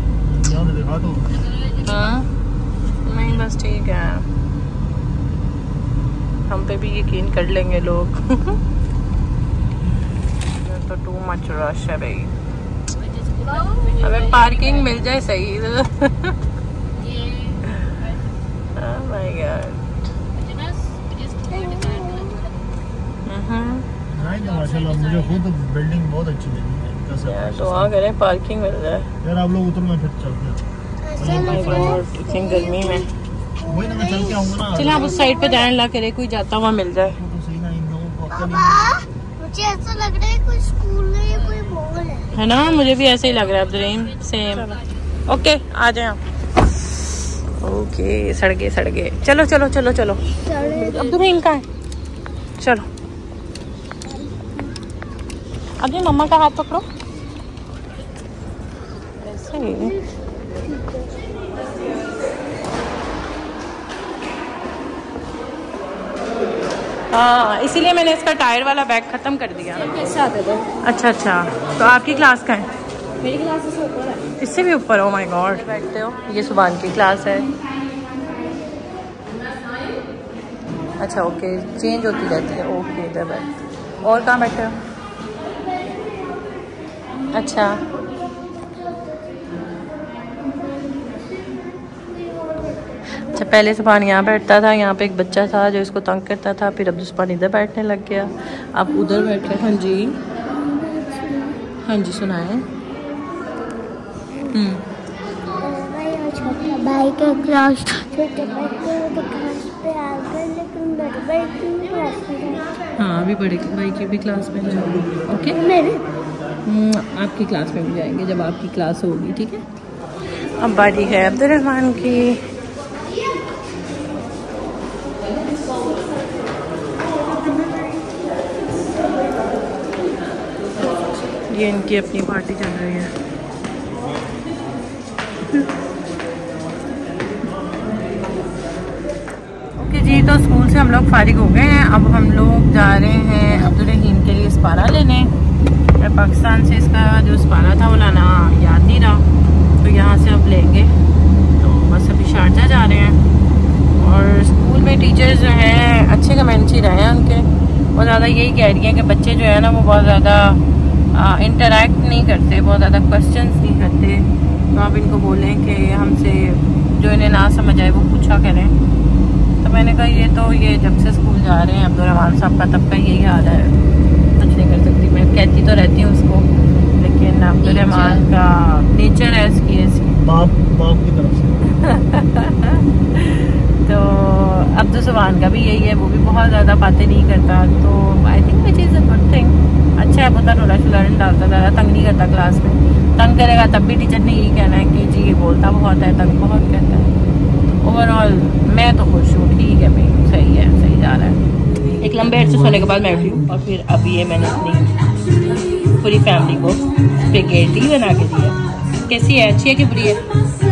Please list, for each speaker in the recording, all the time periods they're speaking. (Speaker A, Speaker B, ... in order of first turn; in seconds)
Speaker A: 0.3-1.4, 24.1-27.8, 29.2-30.7, 31.2-32.0, 33.6-35.0, 37.2-39.0, 180.2-181.6
Speaker B: 1.6-2.3, 3.0-4.3, 6.5-8.6, 10.6-12.3, 13.6-16.4, 17.7-17.9, 18.8-20.0, 23.3-23.9, 27.1-29.1, 31.2-33.1, 34.6-37.2, 42.3-46.2, 47.5-51.7, 52.6-52.9, 55.8-56.9, 59.2-60.0, 67.1-70.1, 70.8-72.7, 74.2-77.5, 81.0-84.8, 87.3-87.8, 93.2-100.2, 101.8-102.7, 104.5-104.8, 113.0-115.6, 116.6-119.7, 120.6-122.5, 131.5-133.1, 139.8-145.3, 146.0-150.9, 151.6-153.2, 154.0-168.8, 169.6-173.8, 174.4-180.2, 181.7-197.1, 197.8-204.9, 205.9-210.2
Speaker C: 21.4-22.5, 38.8-42.3, 50.6-51.0, 70.0-70.7, 73.2-74.2, 100.9-101.5, 105.6-112.7, 115.7-116.0